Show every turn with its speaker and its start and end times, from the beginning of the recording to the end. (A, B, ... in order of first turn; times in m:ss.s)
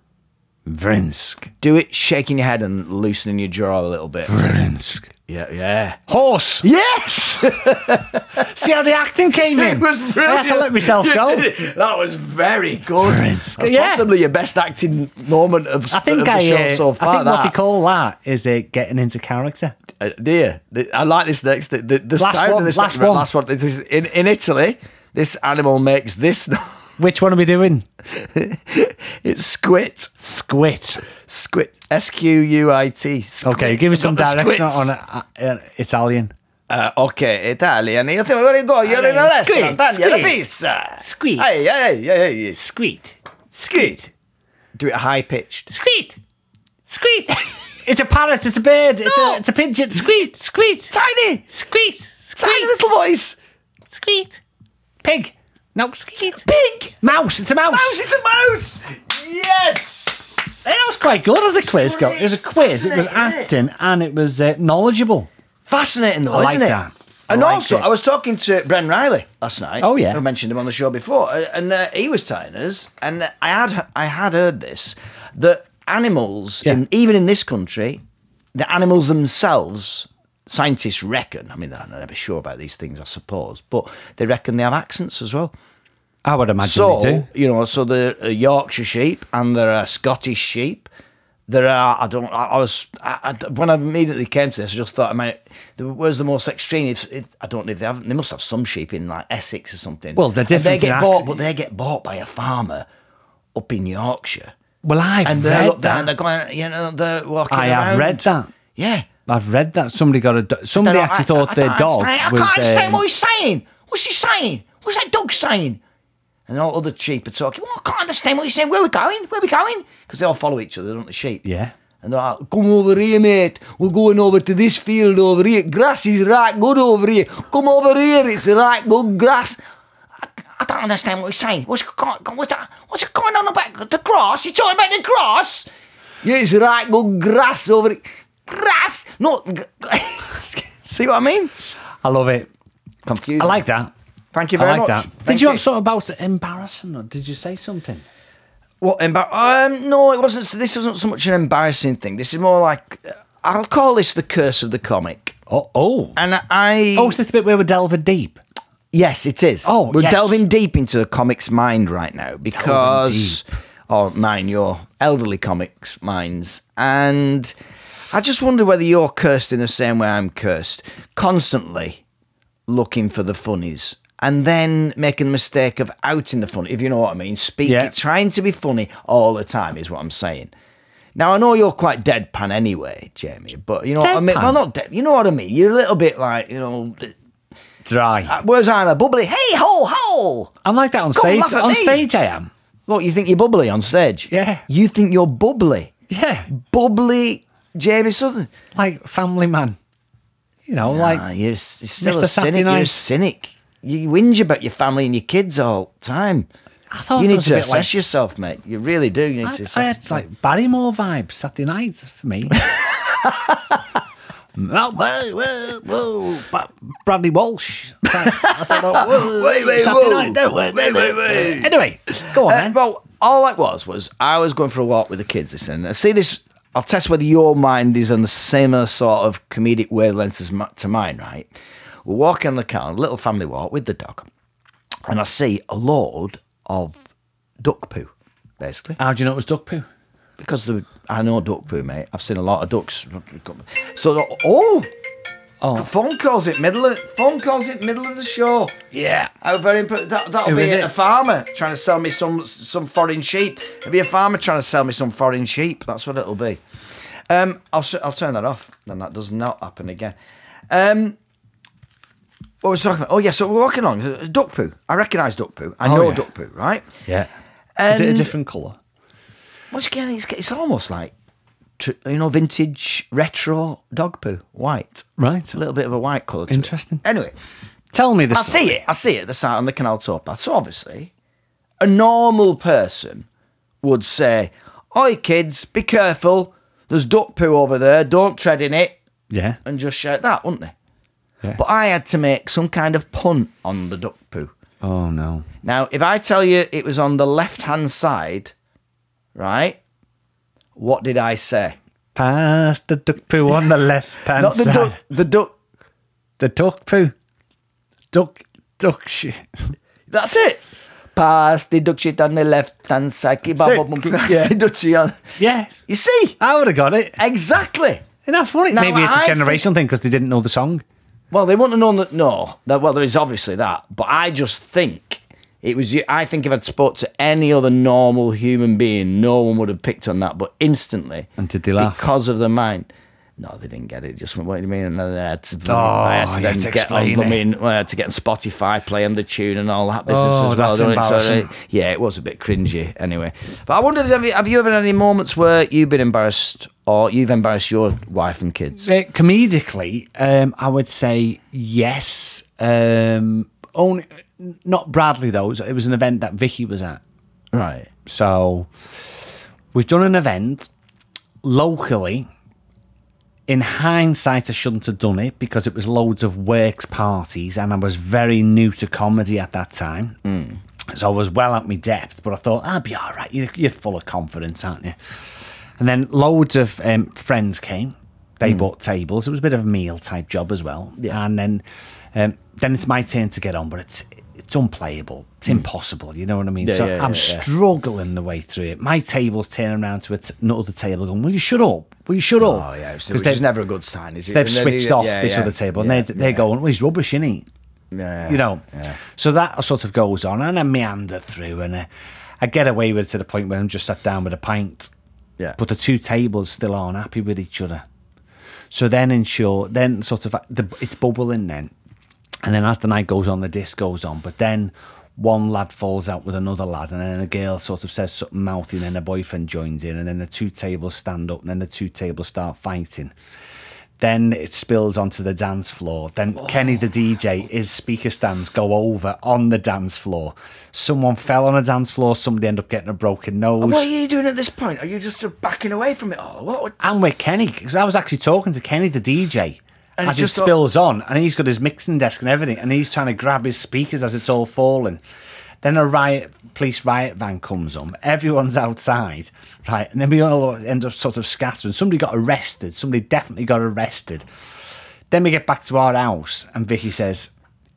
0:00.6-0:01.5 A
0:01.6-0:04.3 B
0:04.3-0:05.1 A
0:05.3-0:06.0 B
0:06.1-0:06.7 A
0:06.6-0:08.4 B
0:08.3-0:11.5 A
0:09.5-0:17.6 B
0:13.0-0:14.0 A
0:15.9-0:19.7 A
0:20.0-0:26.8 B
0:22.2-0:23.3 A
0:27.0-0:27.8 A
0:28.1-0:30.1 B
0:30.2-0:31.0 A
0:31.1-0:34.9 B
0:33.4-0:36.3 A
0:36.7-0:42.6 B
0:38.8-0:40.4 A
0:41.0-0:41.5 A
0:42.5-0:44.1 A
0:43.7-0:44.0 B
0:44.7-0:45.7 B
0:45.7-0:46.2 A
0:46.9-0:50.9 A
0:49.0-0:49.4 B
0:50.9-0:51.4 B
0:51.5-0:52.7 A
0:52.4-0:53.4 B
0:53.9-0:54.4 A
0:55.0-0:56.5 A
0:56.2-0:57.0 B
0:57.0-0:58.0 A
0:57.7-1:00.6 B
1:00.6-1:05.3 A
1:01.6-1:03.5 B
1:05.6-1:18.0 B
1:06.3-1:07.8 A
1:09.8-1:10.2 A
1:18.5-1:25.5 B
1:26.2-1:27.3 A
1:26.6-1:30.9 B
1:31.5-1:42.9 B
1:40.2-1:41.3 A
1:43.5-1:44.5 B
1:44.8-1:46.1 A
1:45.2-1:49.1 B
1:47.5-1:48.5 A
1:49.3-1:53.0 A
1:50.8-1:55.8 B
1:56.5-2:01.4 B
2:01.4-2:01.7 A
2:02.0-2:09.6 B
2:10.2-2:15.7 B
2:16.2-2:21.5 B
2:22.0-2:22.5 A
2:23.0-2:23.6 B
2:23.4-2:23.9 A
2:24.3-2:25.6 B
2:24.6-2:28.0 A
2:28.8-2:35.4 B
2:35.5-2:36.2 A
2:36.2-2:37.2 B
2:37.0-2:38.4 A
2:38.9-2:47.5 B
2:39.6-2:40.4 A
2:42.5-2:43.4 A
2:48.1-2:52.0 B
2:52.7-3:00.5 B
2:57.6-2:57.9 A
3:01.2-3:07.1 B
3:04.0-3:04.6 A
3:07.8-3:08.4 A
3:08.2-3:10.6 B
3:10.6-3:12.5 A
3:11.1-3:12.0 B
3:12.9-3:15.9 B
3:14.3-3:14.6 A
3:16.1-3:16.5 A
3:16.5-3:18.5 B
3:18.7-3:19.8 A
3:20.7-3:21.2 A
3:20.8-3:26.5 B
3:22.0-3:23.0 A
3:26.9-3:27.9 A
3:27.2-3:30.2 B
3:29.4-3:32.7 A
3:32.7-3:33.6 B
3:34.6-3:42.8 A
3:38.2-3:51.5 B
3:52.0-3:54.3 B
3:55.1-3:57.0 B
3:57.6-3:59.0 B
3:59.0-3:59.9 A
4:00.4-4:04.9 B
4:05.6-4:05.9 A
4:05.8-4:08.7 B
4:08.9-4:09.3 A
4:09.4-4:16.6 B
4:10.4-4:10.9 A
4:17.3-4:20.1 B
4:20.7-4:21.2 B
4:22.6-4:26.8 B
4:25.8-4:26.2 A
4:27.8-4:28.3 B
4:27.9-4:28.8 A
4:29.7-4:31.1 B
4:31.8-4:37.3 B
4:35.2-4:35.6 A
4:36.5-4:37.0 A
4:37.9-4:38.8 A
4:38.3-4:41.1 B
4:41.8-4:43.2 B
4:43.8-4:49.0 B
4:49.3-4:49.6 A
4:49.6-4:50.7 B
4:51.5-4:54.5 B
4:54.8-4:55.5 A
4:55.6-4:58.5 B
4:59.3-4:59.8 B
5:00.8-5:01.8 B
5:02.2-5:05.0 A
5:04.3-5:05.5 B
5:06.4-5:07.1 A
5:08.1-5:09.7 A
5:10.1-5:10.6 B
5:11.1-5:15.2 B
5:13.6-5:14.5 A
5:15.4-5:15.7 A
5:15.9-5:16.4 B
5:16.4-5:17.2 A
5:17.2-5:18.0 B
5:18.2-5:20.8 A
5:18.7-5:19.6 B
5:21.3-5:48.9 B
5:31.4-5:32.0 A
5:35.6-5:37.4 A
5:40.1-5:41.5 A
5:48.8-5:57.0 A
5:57.5-5:57.9 B
5:58.0-5:58.7 A
5:59.7-6:00.7 A
6:01.4-6:02.3 A
6:03.5-6:10.2 A
6:10.2-6:10.6 B
6:10.9-6:15.0 A
6:15.8-6:33.4 A
6:26.6-6:27.5 B
6:32.4-6:36.4 B
6:34.3-6:37.4 A
6:37.9-6:39.0 B
6:38.2-6:41.9 A
6:42.4-6:44.9 A
6:45.6-6:47.8 A
6:48.7-6:51.7 A
6:52.4-7:03.1 A
7:04.0-7:13.9 A
7:13.6-7:16.8 B
7:16.8-7:25.0 A
7:20.0-7:20.5 B
7:25.6-7:34.2 A
7:35.1-7:37.3 A